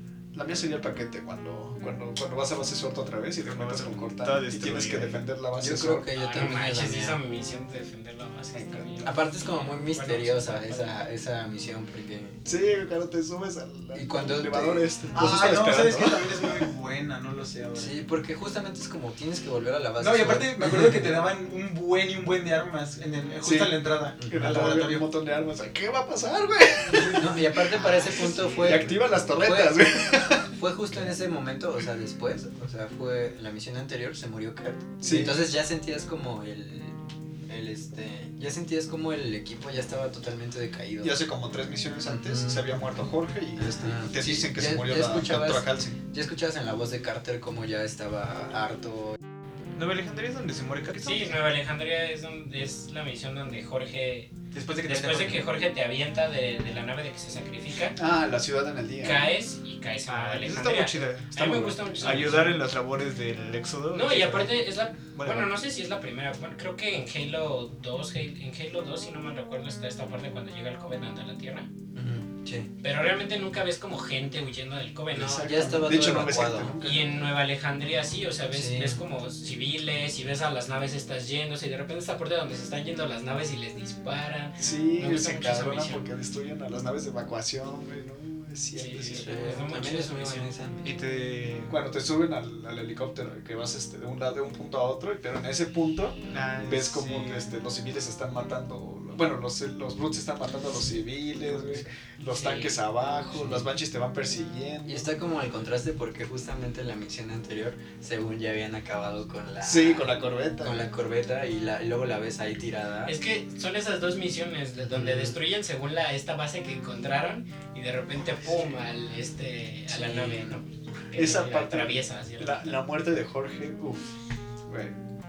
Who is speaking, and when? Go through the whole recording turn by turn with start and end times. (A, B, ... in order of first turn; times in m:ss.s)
0:00.3-0:06.1 A
0:03.4-0:05.2 B
0:05.6-0:07.2 C
0:06.1-0:10.9 D
0:08.5-0:09.0 A
0:09.0-0:12.4 C
0:12.4-0:16.6 A
0:13.9-0:15.0 C
0:15.1-0:17.9 E
0:17.7-0:20.9 C
0:20.0-0:25.1 E
0:23.4-0:30.5 A
0:24.2-0:24.6 C
0:27.1-0:37.0 C
0:35.0-0:35.5 A
0:37.5-0:41.1 C
0:41.0-0:46.0 A
0:42.1-0:42.6 C
0:43.6-0:49.2 C
0:49.8-0:51.5 B
0:51.0-0:54.3 D
0:54.5-0:55.4 E
0:54.8-0:58.0 D
0:58.0-0:59.3 A
0:59.0-1:02.6 D
1:00.1-1:05.5 B
1:01.5-1:02.5 A
1:03.9-1:11.7 D
1:11.9-1:12.7 C
1:12.8-1:16.1 D
1:15.1-1:17.1 A
1:15.4-1:16.8 C
1:16.8-1:26.0 D
1:18.5-1:19.0 C
1:24.6-1:29.6 A
1:28.7-1:30.5 D
1:29.0-1:30.9 C
1:30.8-1:31.8 B
1:31.7-1:45.1 A
1:36.3-1:37.6 B
1:42.3-1:42.8 D
1:43.3-1:43.7 C
1:44.8-1:53.1 C
1:49.6-1:50.8 A
1:53.0-2:02.7 D
1:54.8-1:55.4 C
1:59.9-2:00.6 C
2:01.1-2:04.2 A
2:04.7-2:05.0 A